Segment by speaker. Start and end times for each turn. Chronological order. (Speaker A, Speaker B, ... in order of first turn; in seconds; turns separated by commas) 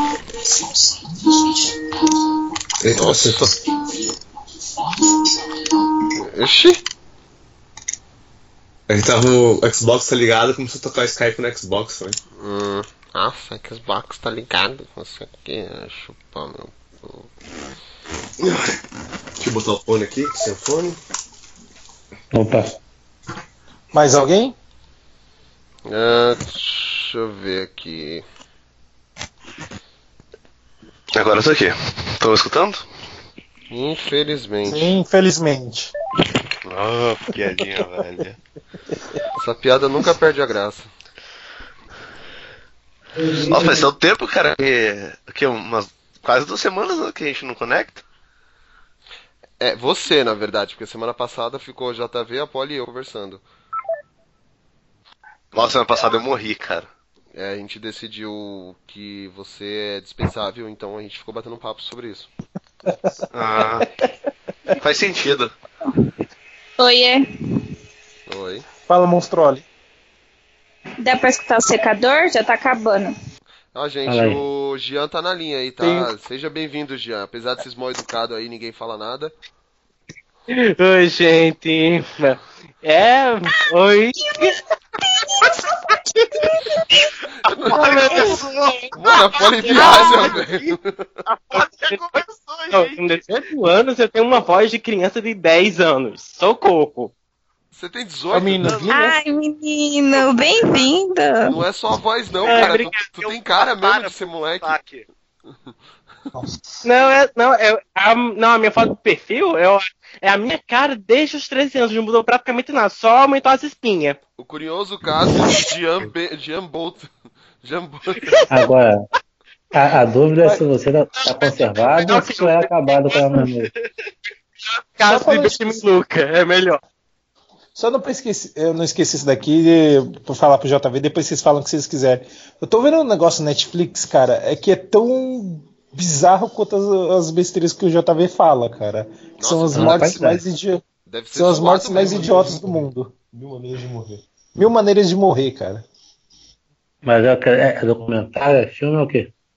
Speaker A: 2.8-3.5, Speaker B: 2.9-3.5, Speaker C: 3.0-3.4, Speaker B: 6.2-6.8, Speaker A: 8.9-12.2, Speaker B: 12.3-17.3, Speaker A: 19.4-21.0, Speaker D: 22.3-22.7, Speaker C: 23.9-24.6, Speaker B: 25.9-28.2, Speaker E: 31.1-32.8, Speaker B: 33.7-34.9, Speaker C: 34.6-35.9, Speaker E: 36.6-38.4, Speaker B: 39.4-40.9, Speaker E: 43.5-48.0, Speaker B: 49.6-53.4, Speaker E: 55.5-56.9, Speaker B: 57.3-62.3, Speaker E: 63.3-63.9, Speaker E: 64.8-65.5, Speaker F: 66.8-67.2, Speaker B: 68.3-68.7, Speaker C: 68.9-69.6, Speaker F: 71.0-73.1, Speaker B: 73.7-79.3, Speaker D: 74.0-74.4, Speaker C: 75.8-76.1, Speaker G: 80.5-84.6, Speaker F: 84.2-84.5, Speaker F: 85.0-86.5, Speaker B: 87.4-88.4, Speaker G: 87.7-88.4, Speaker E: 87.7-88.9, Speaker F: 88.1-88.4, Speaker B: 89.0-90.9, Speaker G: 89.4-90.2, Speaker E: 89.6-93.0, Speaker F: 89.7-90.3, Speaker G: 91.9-97.1, Speaker B: 97.7-98.9, Speaker C: 98.3-99.2, Speaker F: 98.9-101.5, Speaker B: 101.4-104.8, Speaker G: 102.4-103.1, Speaker E: 103.2-105.0, Speaker C: 106.3-106.8, Speaker G: 106.8-114.2, Speaker B: 114.4-117.1, Speaker B: 117.6-118.3, Speaker D: 118.5-119.0, Speaker D: 119.7-123.7, Speaker G: 121.2-123.4, Speaker G: 125.0-126.8, Speaker C: 125.0-125.8, Speaker C: 127.7-145.8, Speaker B: 139.4-140.2, Speaker D: 139.7-140.4, Speaker B: 141.1-142.8, Speaker D: 147.0-149.3